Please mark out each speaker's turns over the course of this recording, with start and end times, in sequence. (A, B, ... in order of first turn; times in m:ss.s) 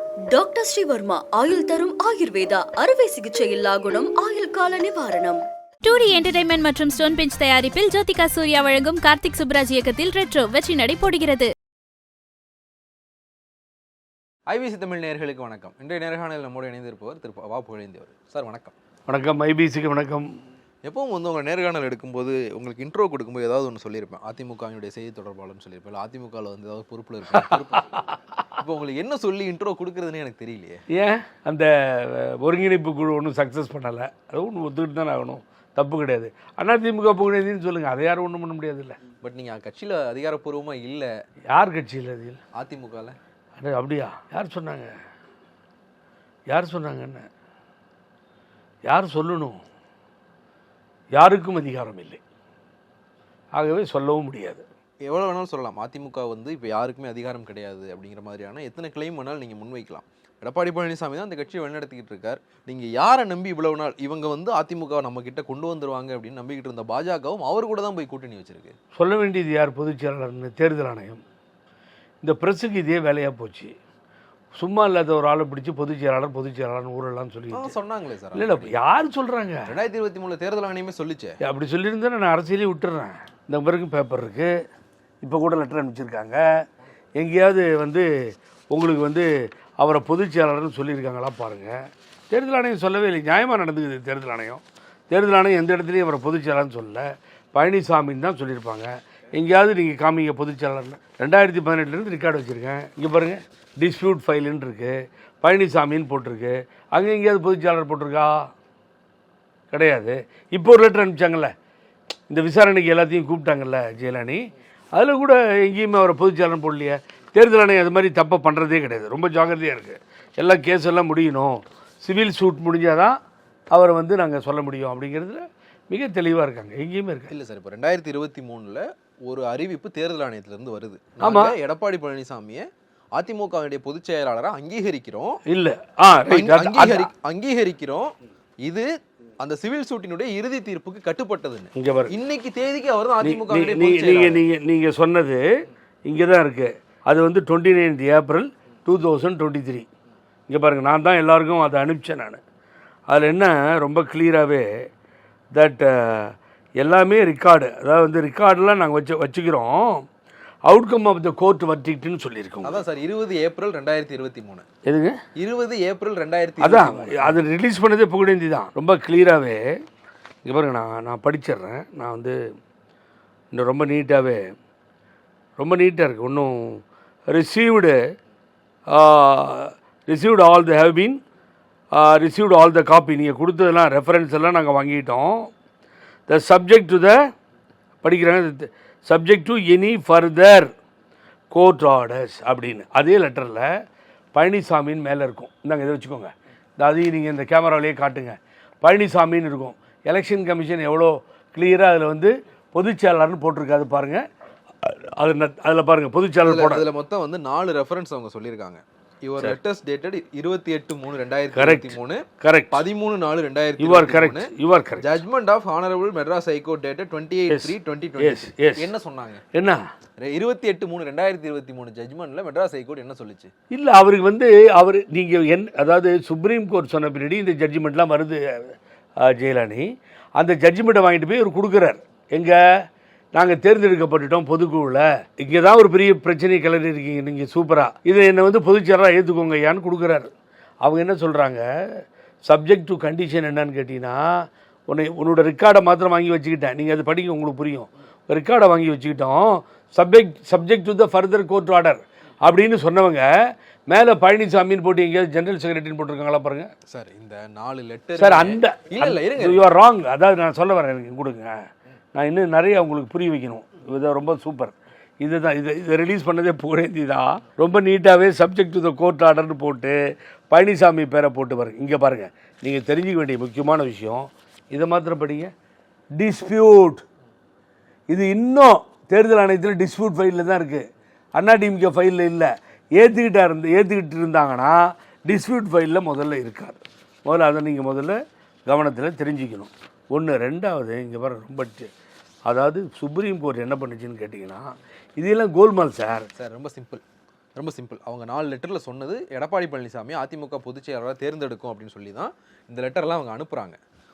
0:00.3-0:05.4 A
0:05.8-0:11.5 B
0:14.5-0:18.7 C
0:19.1-0:20.3 D
0:20.8-0:30.8 C
0:27.3-0:28.2 D
0:30.9-0:39.0 D
0:39.2-0:41.1 C
0:41.5-0:42.4 D
0:42.6-0:43.2 C
0:43.6-0:44.9 D
0:46.5-0:47.3 D
0:48.8-0:49.6 D
0:51.1-0:52.2 D
0:53.5-0:54.6 D
0:55.0-1:08.8 C
1:08.9-1:11.2 D
1:12.2-1:13.7 D
1:14.6-1:17.7 D
1:17.5-1:18.8 C
1:18.3-1:19.7 D
1:19.6-1:21.4 C
1:21.4-1:24.5 D
1:25.2-1:26.4 D
1:27.2-1:48.5 D
1:49.7-1:51.5 D
1:52.3-1:54.4 D
1:54.9-2:03.2 D
2:03.7-2:07.3 D
2:07.3-2:15.4 C
2:11.2-2:11.5 D
2:15.5-2:17.1 D
2:16.3-2:18.9 C
2:19.4-2:24.4 C
2:21.7-2:22.1 D
2:23.2-2:25.4 D
2:26.0-2:29.8 D
2:30.5-2:32.4 D
2:33.1-2:34.7 D
2:35.5-2:40.1 D
2:40.7-2:42.8 D
2:42.6-2:44.6 C
2:44.8-2:45.2 D
2:45.4-2:47.4 C
2:46.6-2:49.8 D
2:50.4-2:52.4 D
2:53.5-2:54.5 D
2:55.6-2:58.0 D
2:58.9-3:01.2 D
3:01.9-3:05.5 D
3:06.3-3:07.2 D
3:08.0-3:10.7 D
3:11.5-3:13.7 D
3:14.3-3:24.2 D
3:24.8-3:26.8 D
3:26.4-3:39.4 C
3:31.5-3:32.8 D
3:33.8-3:35.1 D
3:37.5-3:38.9 D
3:39.5-3:39.8 D
3:40.2-3:43.5 C
3:43.7-3:52.6 D
3:53.3-4:00.3 D
4:00.8-4:16.7 D
4:16.9-4:19.6 C
4:18.2-4:30.0 D
4:30.5-4:35.5 D
4:36.2-4:37.0 D
4:38.1-4:40.8 D
4:41.4-4:51.9 D
4:52.4-4:56.3 D
4:56.4-4:57.0 C
4:57.6-5:03.8 C